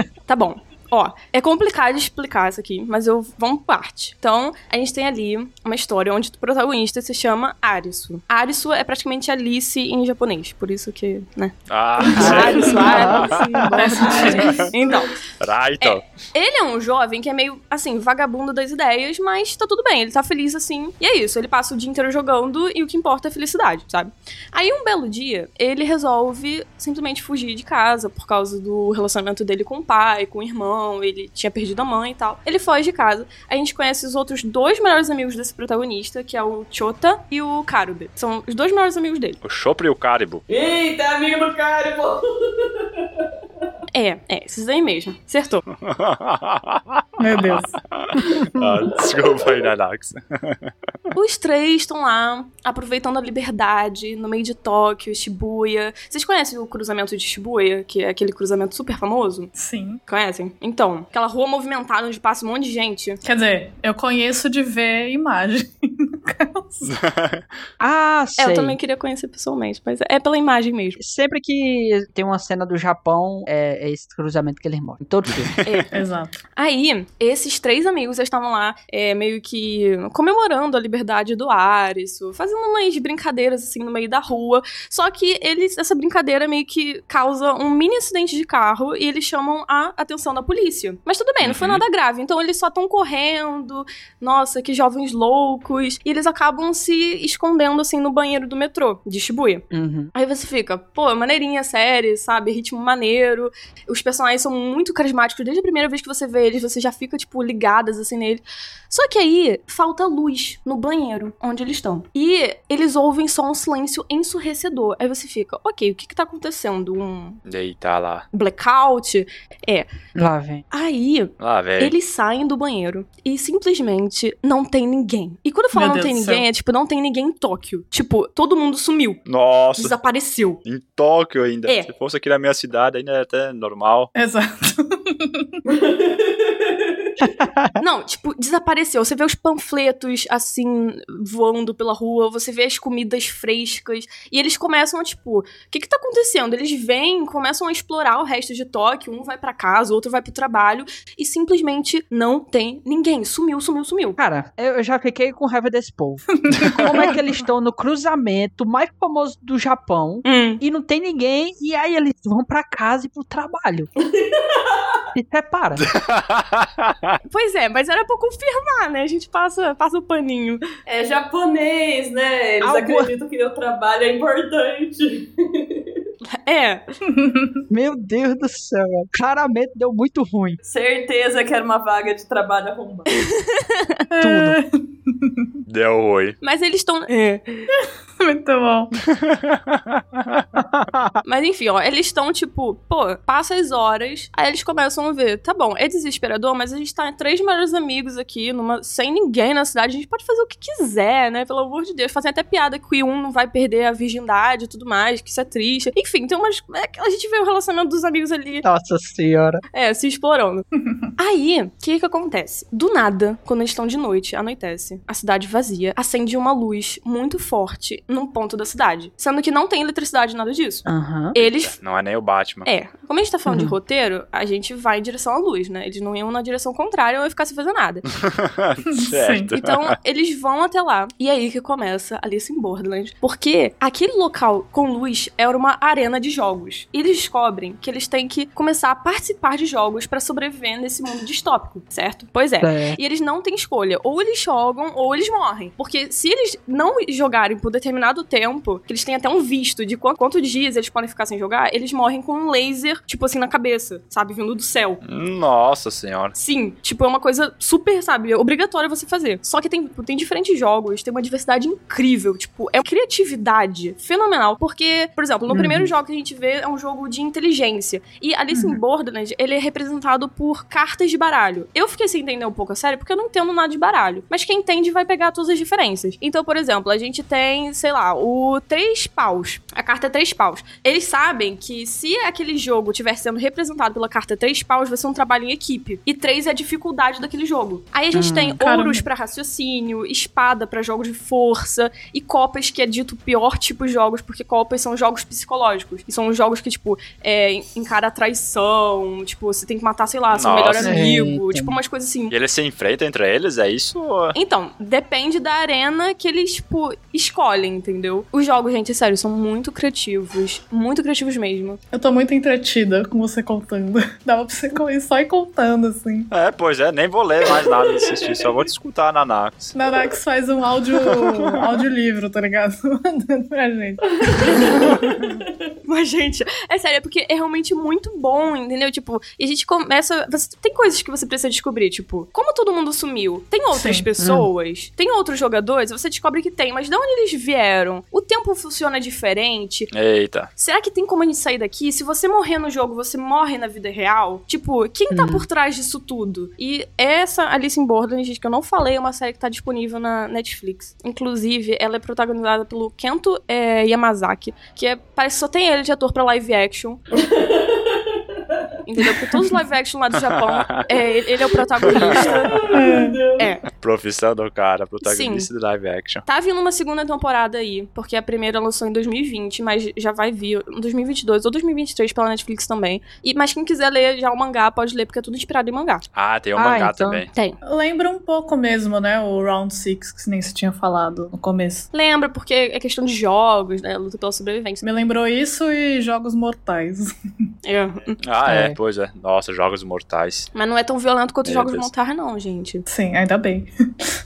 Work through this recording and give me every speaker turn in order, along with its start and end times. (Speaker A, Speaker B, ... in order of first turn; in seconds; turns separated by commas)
Speaker A: 0.3-15.1, Speaker B: 11.7-13.6, Speaker C: 12.2-13.2, Speaker D: 12.2-12.5, Speaker E: 12.6-13.1, Speaker E: 13.7-14.7, Speaker D: 14.0-14.9, Speaker B: 15.4-16.0, Speaker A: 15.8-39.4, Speaker B: 39.4-40.4, Speaker D: 40.5-43.0, Speaker A: 43.9-45.6, Speaker B: 45.8-50.7, Speaker E: 47.2-47.7, Speaker D: 48.5-49.0, Speaker A: 51.1-59.5, Speaker E: 59.5-60.0, Speaker A: 60.1-63.2, Speaker E: 63.2-66.9, Speaker B: 66.8-67.5, Speaker C: 67.8-68.8, Speaker A: 68.4-71.0, Speaker C: 71.0-75.5, Speaker B: 75.4-75.8, Speaker A: 75.6-75.9, Speaker E: 75.9-76.4, Speaker A: 76.5-117.4, Speaker B: 91.4-91.8, Speaker C: 99.7-100.1, Speaker B: 117.5-118.2, Speaker A: 118.3-119.9, Speaker C: 120.2-120.6, Speaker A: 120.7-129.2, Speaker B: 121.4-121.9, Speaker E: 125.7-126.4, Speaker B: 129.2-129.9, Speaker A: 129.8-130.6, Speaker B: 130.6-134.1, Speaker E: 134.1-135.6, Speaker D: 135.7-137.1, Speaker C: 137.2-137.8, Speaker A: 137.8-154.2, Speaker C: 154.2-163.9, Speaker E: 156.4-157.0, Speaker A: 160.2-160.6, Speaker D: 164.0-165.1, Speaker C: 165.1-165.8, Speaker B: 165.8-167.2, Speaker A: 167.3-170.6, Speaker D: 170.8-176.0, Speaker C: 172.6-173.1, Speaker A: 176.3-176.8, Speaker E: 177.1-177.5, Speaker C: 177.7-180.6, Speaker D: 180.6-183.1, Speaker A: 183.3-183.9, Speaker E: 184.1-185.5, Speaker C: 184.2-184.6, Speaker B: 185.7-186.4, Speaker A: 186.4-187.7, Speaker E: 187.8-188.9, Speaker B: 189.0-190.5, Speaker A: 191.2-208.6, Speaker C: 208.6-209.6, Speaker A: 209.7-210.6, Speaker A: 211.2-221.8, Speaker C: 220.8-221.3, Speaker B: 221.4-222.7, Speaker A: 222.6-228.0, Speaker C: 223.5-223.7, Speaker B: 228.2-229.9, Speaker E: 228.9-229.5, Speaker A: 229.6-255.0, Speaker C: 242.6-243.0, Speaker B: 255.0-256.3, Speaker A: 256.3-302.3, Speaker C: 265.5-265.9, Speaker E: 268.5-268.8, Speaker C: 288.1-288.6, Speaker E: 288.6-289.0, Speaker B: 300.3-301.0, Speaker C: 300.8-301.8, Speaker B: 302.3-304.4, Speaker A: 304.3-311.8, Speaker E: 311.9-316.3, Speaker B: 316.3-319.8, Speaker D: 317.6-318.6, Speaker E: 319.7-324.9, Speaker B: 320.9-321.8, Speaker D: 324.2-325.1, Speaker A: 325.8-339.9, Speaker E: 333.7-334.1, Speaker C: 334.2-334.5, Speaker B: 339.9-340.5, Speaker A: 340.6-357.0, Speaker C: 345.1-345.5, Speaker D: 357.1-358.6, Speaker A: 358.9-362.5, Speaker B: 360.5-360.9, Speaker B: 361.9-362.7, Speaker D: 361.9-363.5, Speaker E: 362.7-363.2, Speaker A: 363.4-363.6, Speaker B: 363.7-366.2, Speaker A: 365.0-365.5, Speaker A: 366.2-376.0, Speaker B: 376.1-377.3, Speaker C: 376.5-377.2, Speaker A: 377.3-377.6, Speaker E: 377.6-381.9, Speaker A: 381.9-384.8, Speaker E: 384.8-387.1, Speaker A: 387.6-388.1, Speaker B: 388.2-390.5, Speaker C: 388.4-388.8, Speaker A: 390.5-392.9, Speaker B: 391.4-391.9, Speaker E: 392.9-393.7